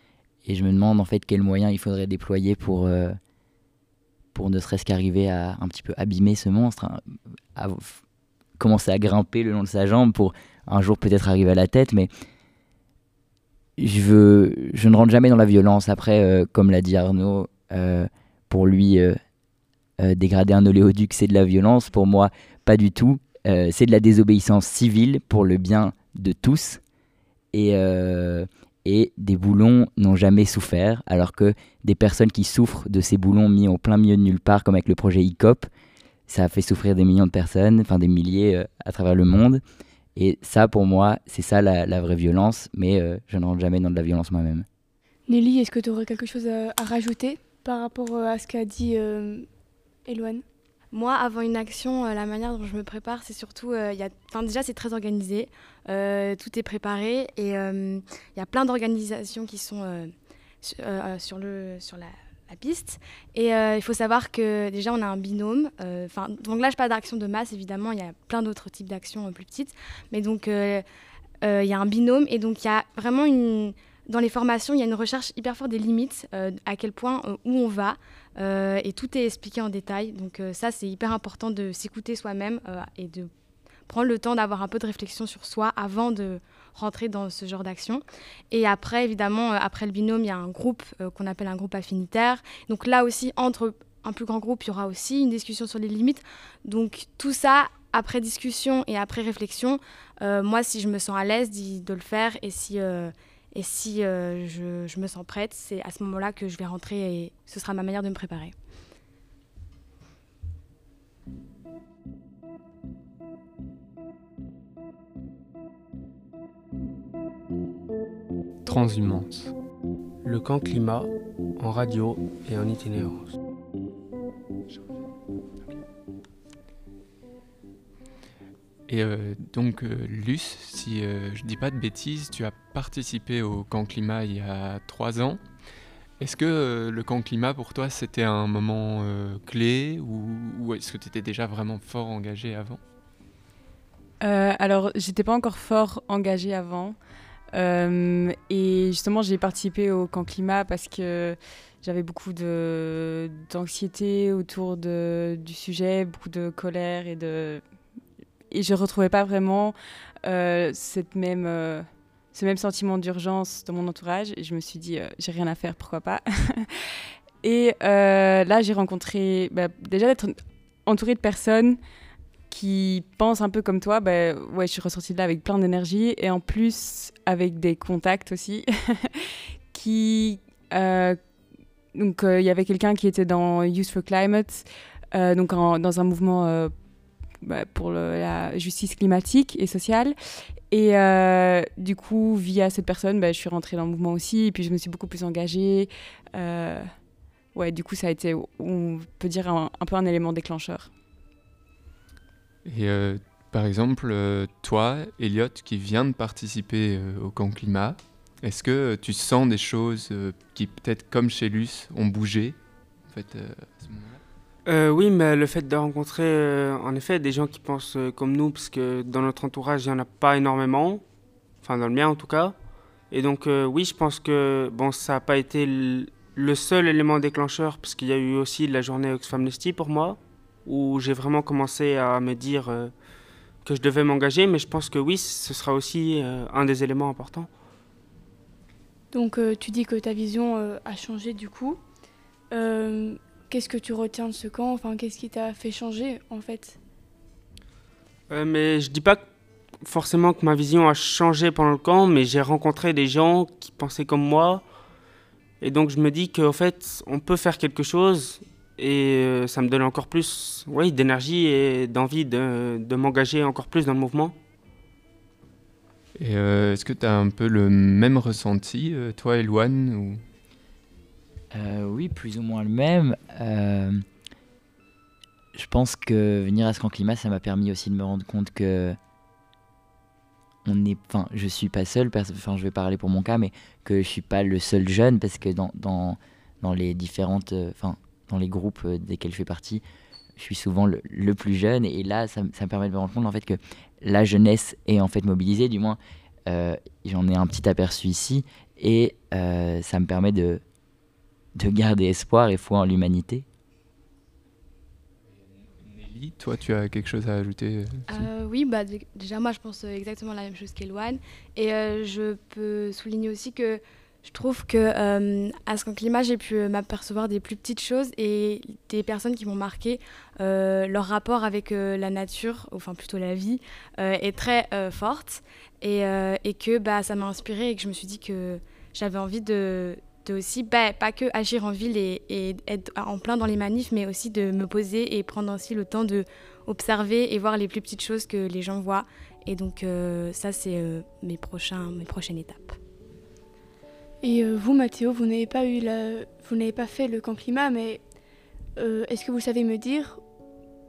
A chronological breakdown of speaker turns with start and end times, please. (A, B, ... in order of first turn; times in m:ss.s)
0:00.4-0:03.2 A
0:04.3-0:07.0 A
0:07.6-0:08.0 A
0:08.6-0:12.1 A
0:13.8-0:19.2 A
0:20.0-0:26.8 A
0:27.5-0:35.7 A
0:36.3-0:39.6 A
0:40.2-0:44.6 A
0:45.3-0:49.5 B
0:50.1-0:50.4 B
0:50.9-1:10.8 C
1:11.4-1:23.3 C
1:23.9-1:48.6 C
1:58.7-1:59.5 D
2:00.2-2:03.3 E
2:08.9-2:15.4 D
2:16.2-2:22.8 D
2:24.2-2:27.0 F
2:27.5-2:37.6 F
2:38.5-2:46.6 F
2:47.4-2:51.8 F
2:52.5-2:59.1 F
2:59.7-3:01.2 F
3:02.0-3:06.7 F
3:07.4-3:10.1 F
3:10.7-3:16.9 F
3:17.6-3:20.9 F
3:22.6-3:34.2 D
3:34.7-3:41.0 E
3:41.6-3:42.6 E
3:43.1-3:52.9 E
3:53.6-3:57.5 E
3:59.1-4:01.8 B
4:02.5-4:06.8 B
4:08.3-4:09.2 E
4:09.8-4:14.6 E
4:15.6-4:24.4 E
4:26.2-4:30.2 D
4:31.5-4:34.0 A
4:35.6-4:39.0 A
4:40.6-4:49.8 A
4:50.4-5:00.6 A
5:01.6-5:03.4 A
5:05.5-5:08.3 D
5:08.1-5:42.8 C
5:44.2-5:48.0 B
5:48.8-5:50.2 B